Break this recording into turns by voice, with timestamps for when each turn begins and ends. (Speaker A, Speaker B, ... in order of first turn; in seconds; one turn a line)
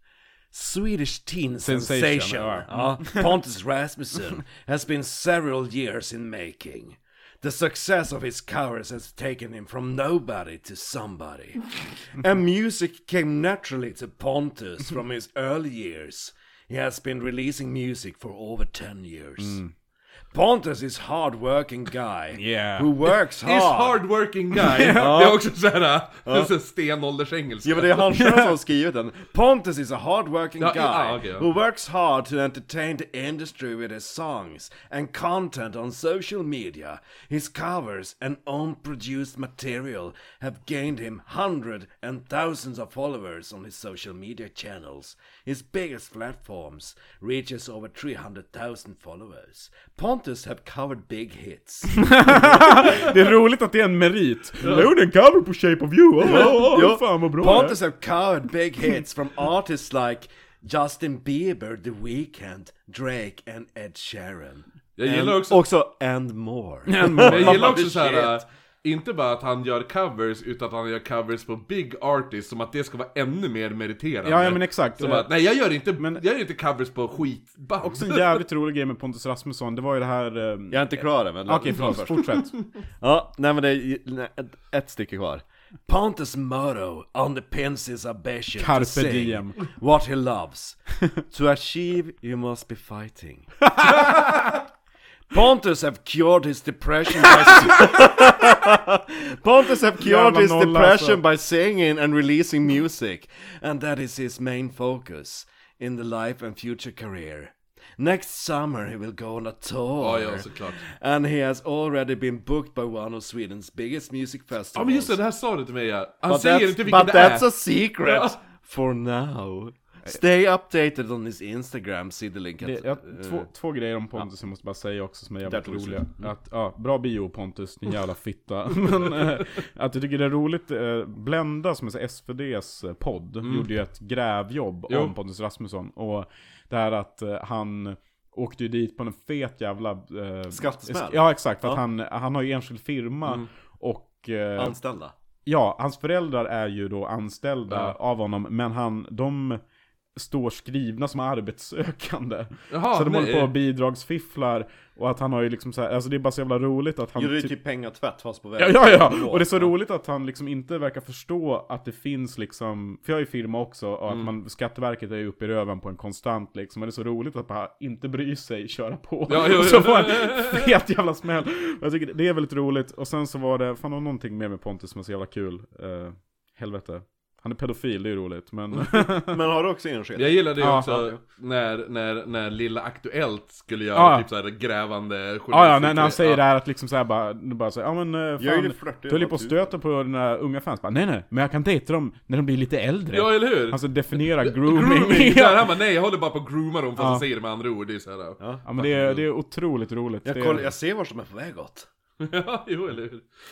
Speaker A: 0.5-19.6
Speaker B: 1.6-3.3
Speaker B: 19.4-19.7
Speaker A: 20.3-24.0
Speaker B: 22.3-23.0
Speaker C: 23.4-28.1
Speaker B: 24.5-25.2
Speaker A: 24.9-25.4
Speaker A: 26.3-26.6
Speaker A: 27.6-52.5
Speaker B: 28.1-28.6
Speaker C: 30.6-31.5
Speaker B: 51.9-57.8
Speaker A: 56.2-68.4
Speaker C: 65.0-65.6
Speaker B: 66.9-67.8
Speaker C: 67.2-78.4
Speaker B: 74.2-76.2
Speaker B: 77.8-82.6
Speaker A: 80.7-82.2
Speaker A: 83.0-90.8
Speaker B: 88.5-89.7
Speaker A: 91.3-93.5
Speaker B: 93.8-94.3
Speaker A: 95.3-115.2
Speaker B: 100.0-101.2
Speaker C: 110.0-110.8
Speaker C: 114.7-118.3
Speaker A: 116.3-123.5
Speaker B: 122.6-144.8
Speaker A: 125.4-126.3
Speaker C: 133.4-133.7
Speaker A: 140.5-141.8
Speaker A: 144.6-145.2
Speaker B: 145.5-149.6
Speaker C: 147.7-147.9
Speaker B: 150.2-157.6
Speaker C: 152.7-153.6
Speaker A: 157.2-159.7
Speaker B: 158.6-179.4
Speaker C: 169.3-170.7
Speaker A: 178.8-181.2
Speaker C: 180.2-186.4
Speaker B: 180.6-181.0
Speaker B: 183.9-184.3
Speaker B: 185.5-195.7
Speaker A: 188.4-189.8
Speaker C: 193.1-199.2
Speaker B: 197.0-197.2
Speaker A: 198.4-198.8
Speaker B: 198.7-200.7
Speaker A: 200.2-201.9
Speaker C: 202.2-203.2